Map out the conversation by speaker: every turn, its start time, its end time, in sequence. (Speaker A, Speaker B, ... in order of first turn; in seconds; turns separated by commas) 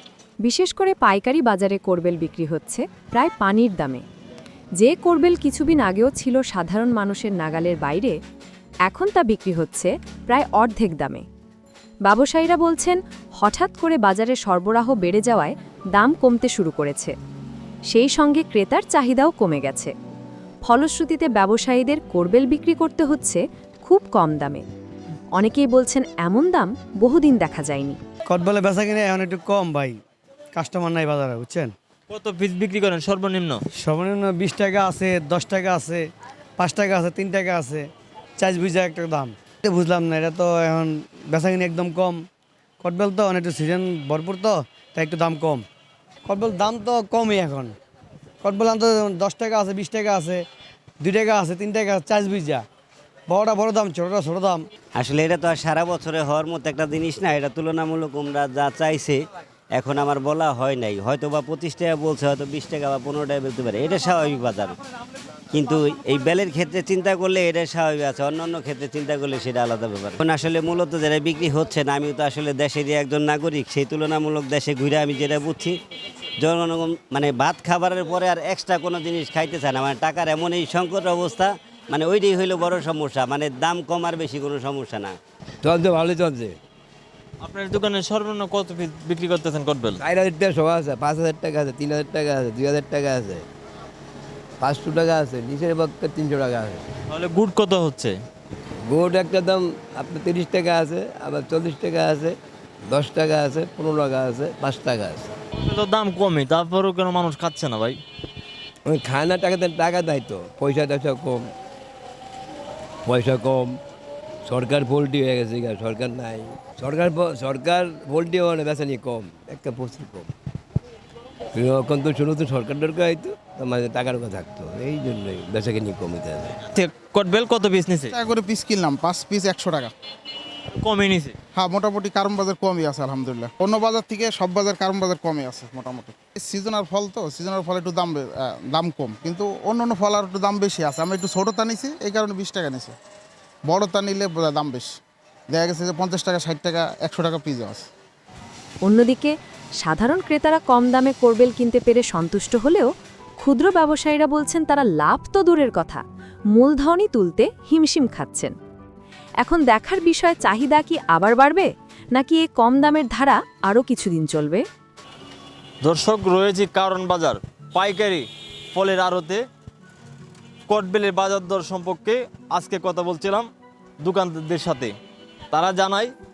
Speaker A: 0.4-4.0, Speaker A: 4.8-8.2, Speaker A: 8.9-11.2, Speaker A: 12.1-17.1, Speaker A: 17.9-19.9, Speaker A: 20.7-24.6, Speaker A: 25.4-28.0, Speaker B: 28.3-30.0, Speaker B: 30.5-31.7, Speaker C: 32.1-33.6, Speaker B: 33.8-36.0, Speaker B: 36.6-37.9, Speaker B: 38.4-42.2, Speaker B: 42.8-45.6, Speaker B: 46.3-47.7, Speaker B: 48.4-50.4, Speaker B: 51.0-52.6, Speaker B: 53.3-54.6, Speaker D: 55.0-59.2, Speaker D: 59.8-64.8, Speaker D: 65.5-75.8, Speaker D: 76.4-85.2, Speaker E: 85.6-86.6, Speaker C: 87.4-90.0, Speaker E: 90.0-93.5, Speaker E: 94.6-96.8, Speaker C: 97.1-98.2, Speaker E: 98.9-102.4, Speaker E: 102.9-105.3, Speaker C: 105.6-108.0, Speaker E: 108.9-111.4, Speaker E: 113.1-113.7, Speaker E: 114.5-120.3, Speaker E: 121.5-126.5, Speaker C: 126.7-128.1, Speaker F: 128.1-129.9, Speaker C: 130.8-131.3, Speaker F: 131.6-142.9, Speaker F: 143.7-144.9, Speaker F: 145.5-147.8, Speaker A: 148.8-152.9, Speaker A: 153.4-156.0, Speaker A: 156.5-158.6, Speaker A: 159.4-164.6, Speaker C: 165.8-169.4, Speaker C: 170.7-173.5, Speaker C: 174.0-174.9, Speaker C: 175.5-176.1